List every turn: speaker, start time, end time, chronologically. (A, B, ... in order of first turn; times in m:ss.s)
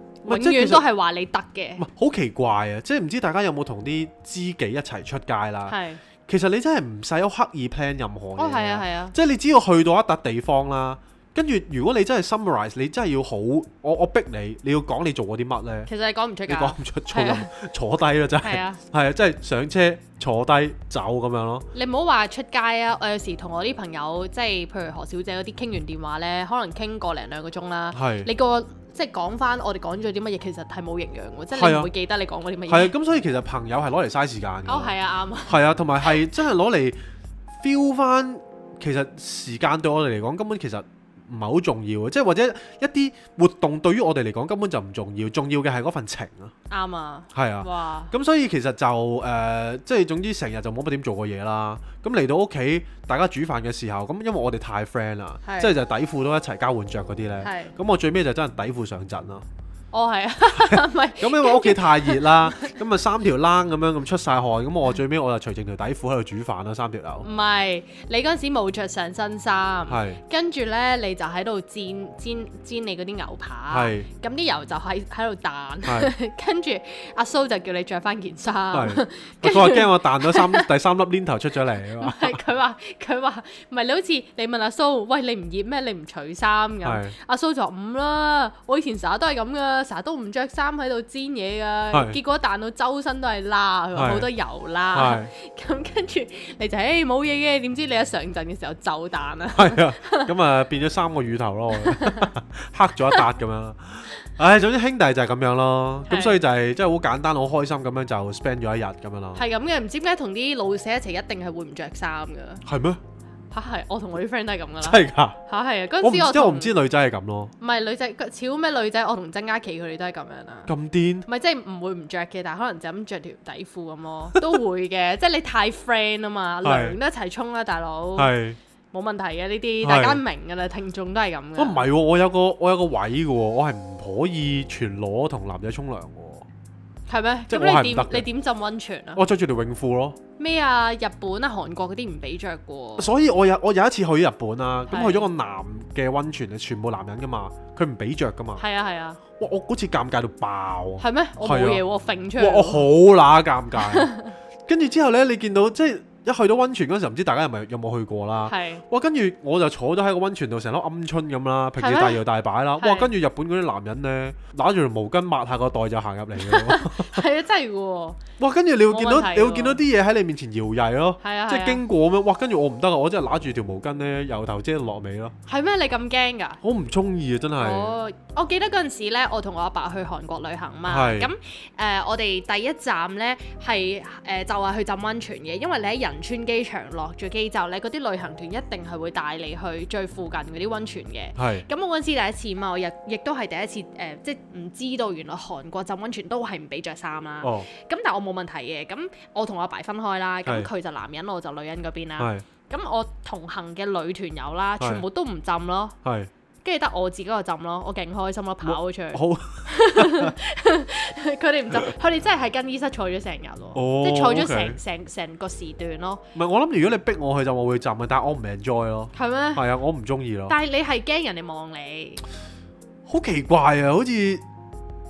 0:00.2-0:00.9 A
0:00.2-0:01.8 B
0:01.8-0:05.8 A
0:05.7-0:06.0 B
0:06.3-0:15.9 A
0:08.4-0:09.2 B
0:15.9-0:17.5 B
0:16.5-0:21.7 A
0:18.4-0:18.8 B
0:21.7-0:32.9 B
0:27.9-0:28.3 A
0:31.5-0:31.9 A
0:32.7-0:34.9 A
0:34.7-0:35.6 B
0:35.5-0:37.0 A
0:37.6-0:46.5 A
0:46.7-0:48.1 B
0:47.3-0:59.4 A
0:55.4-0:55.7 B
0:57.4-0:57.7 B
0:59.9-1:02.7 B
1:00.6-1:07.3 A
1:07.2-1:20.7 B
1:09.9-1:10.2 A
1:13.7-1:14.1 A
1:15.9-1:16.1 A
1:18.7-1:22.4 A
1:21.9-1:40.3 B
1:26.8-1:27.1 A
1:31.9-1:32.2 A
1:34.0-1:34.3 A
1:34.9-1:35.3 A
1:39.5-1:49.4 A
1:41.8-1:42.3 B
1:46.1-1:46.4 B
1:49.4-1:52.6 B
1:52.6-1:53.0 A
1:53.5-1:56.7 B
1:54.8-1:55.4 A
1:56.0-1:57.5 A
1:57.6-2:00.7 B
2:00.7-2:01.2 A
2:01.2-2:08.3 B
2:06.6-2:07.0 A
2:08.2-2:08.6 A
2:08.9-2:11.9 B
2:09.8-2:10.2 A
2:11.6-2:16.5 A
2:17.1-2:19.2 B
2:17.5-2:18.2 A
2:19.1-2:20.2 A
2:20.4-2:23.1 B
2:23.0-2:28.6 A
2:24.9-2:25.3 B
2:28.6-2:29.2 B
2:29.4-2:31.8 A
2:31.0-2:32.8 B
2:32.4-2:34.1 A
2:33.8-2:34.3 B
2:34.7-2:47.2 A
2:38.5-2:38.8 B
2:41.8-2:42.2 B
2:42.8-2:43.1 B
2:46.4-2:48.2 B
2:48.4-2:55.4 A
2:48.9-2:49.8 B
2:51.2-2:51.8 B
2:55.5-2:56.6 B
2:56.6-2:58.0 A
2:57.6-3:26.0 B
3:00.9-3:01.3 A
3:11.4-3:11.6 A
3:17.4-3:17.7 A
3:22.2-3:22.4 A
3:26.0-3:26.3 A
3:26.6-3:36.2 B
3:28.6-3:30.4 A
3:33.8-3:34.8 A
3:36.4-3:40.6 A
3:39.1-3:39.6 B
3:40.5-3:42.2 B
3:43.1-3:44.4 A